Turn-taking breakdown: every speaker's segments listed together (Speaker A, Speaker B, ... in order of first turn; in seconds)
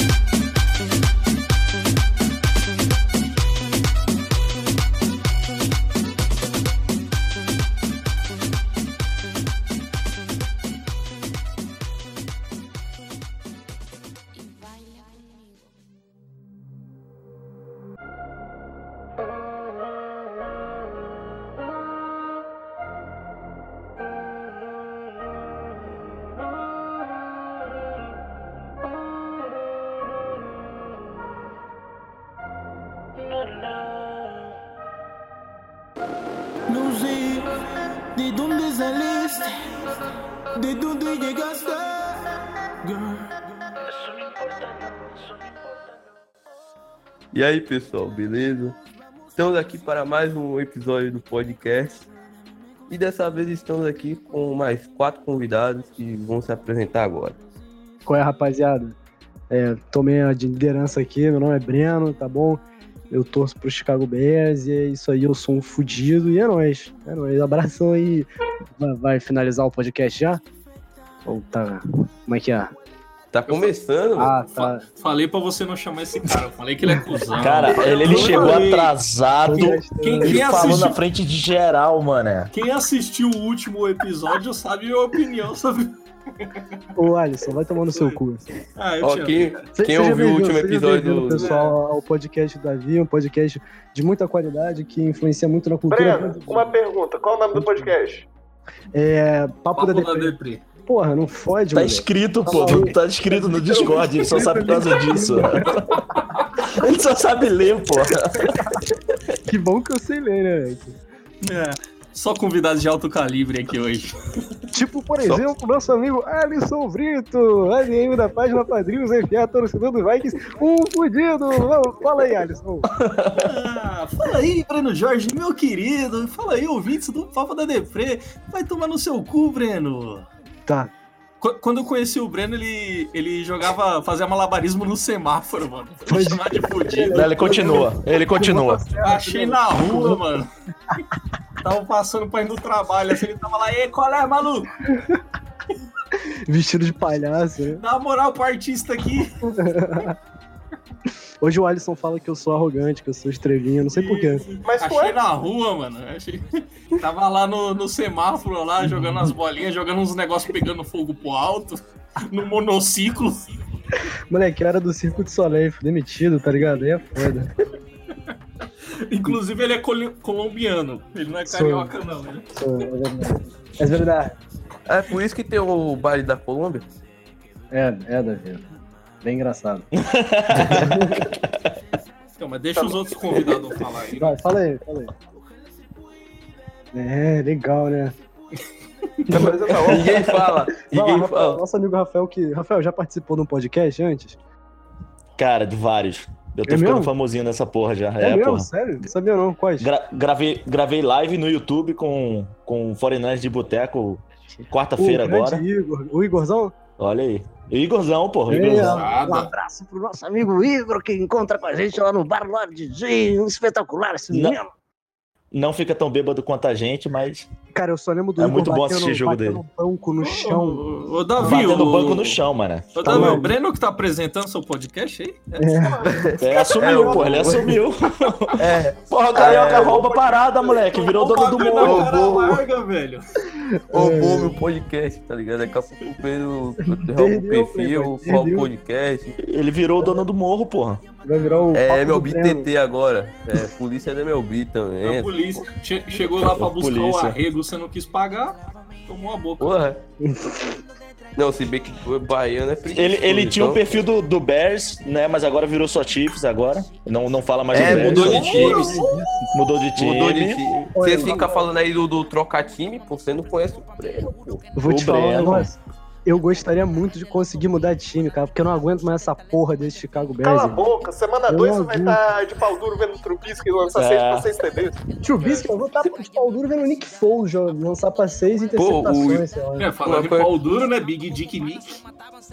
Speaker A: 36.7-37.5, 38.1-39.5, 40.5-42.2, 42.8-43.3
Speaker B: 47.3-48.8, 49.4-52.1, 52.9-57.4, 73.3-74.4, 89.0-91.5, 174.9-176.9, 189.4-191.6, 226.0-227.8, 228.6-230.1, 231.8-232.6, 233.9-239.4, 241.7-245.7, 249.6-250.0, 251.4-254.0, 257.7-259.1, 260.0-264.7, 278.8-279.5, 280.0-280.5
Speaker C: 58.1-59.0, 59.5-70.4, 71.3-72.7, 74.2-74.8, 78.1-78.6, 79.5-80.8, 87.0-88.5, 89.8-96.7, 97.5-97.9, 98.9-103.0, 103.7-105.7, 108.4-109.0, 109.5-111.0, 114.7-122.9, 136.1-140.2, 144.9-145.2, 146.3-147.8, 149.4-150.2, 151.4-154.4, 164.3-167.5, 171.5-171.9, 172.6-174.4, 177.7-178.6, 179.2-179.9, 180.6-181.3, 184.2-185.1, 186.9-188.2, 189.3-190.2, 190.8-194.4, 196.7-197.1, 198.2-199.9, 204.6-206.8, 208.5-214.7, 217.7-220.8, 223.0-223.6, 225.6-226.0, 233.6-234.6, 236.9-238.7, 241.2-242.7, 250.2-250.8, 257.8-259.5, 260.9-261.7, 264.8-270.9, 271.5-272.2, 275.2-279.9
Speaker D: 73.5-73.7, 74.5-79.0, 79.5-81.0, 82.5-86.6, 88.8-89.7, 91.3-91.8, 99.8-100.6, 111.4-114.1, 123.4-130.3, 131.4-137.6, 139.0-140.5, 141.6-144.7, 147.8-149.5, 153.9-163.4, 169.1-172.5, 182.4-184.4, 208.7-209.5, 220.2-222.4, 222.9-226.0, 230.8-233.2, 241.4-241.7, 245.0-249.7, 257.9-259.5, 275.4-275.7, 279.8-282.0
Speaker E: 77.3-82.5, 101.7-106.0, 106.6-108.5, 122.9-123.5, 137.1-138.8, 179.9-181.4, 190.1-190.5, 195.4-198.7, 199.8-205.6, 207.0-209.1, 214.3-214.6, 215.5-217.5, 218.4-219.6, 221.4-223.5, 226.4-232.4, 239.4-241.0, 246.3-247.4, 252.9-258.8, 259.5-260.6, 264.8-265.7, 273.9-274.5
Speaker F: 95.9-98.3, 103.3-104.3, 154.6-155.2, 182.8-183.5, 189.3-190.3, 225.8-227.3, 229.4-230.6, 270.4-275.0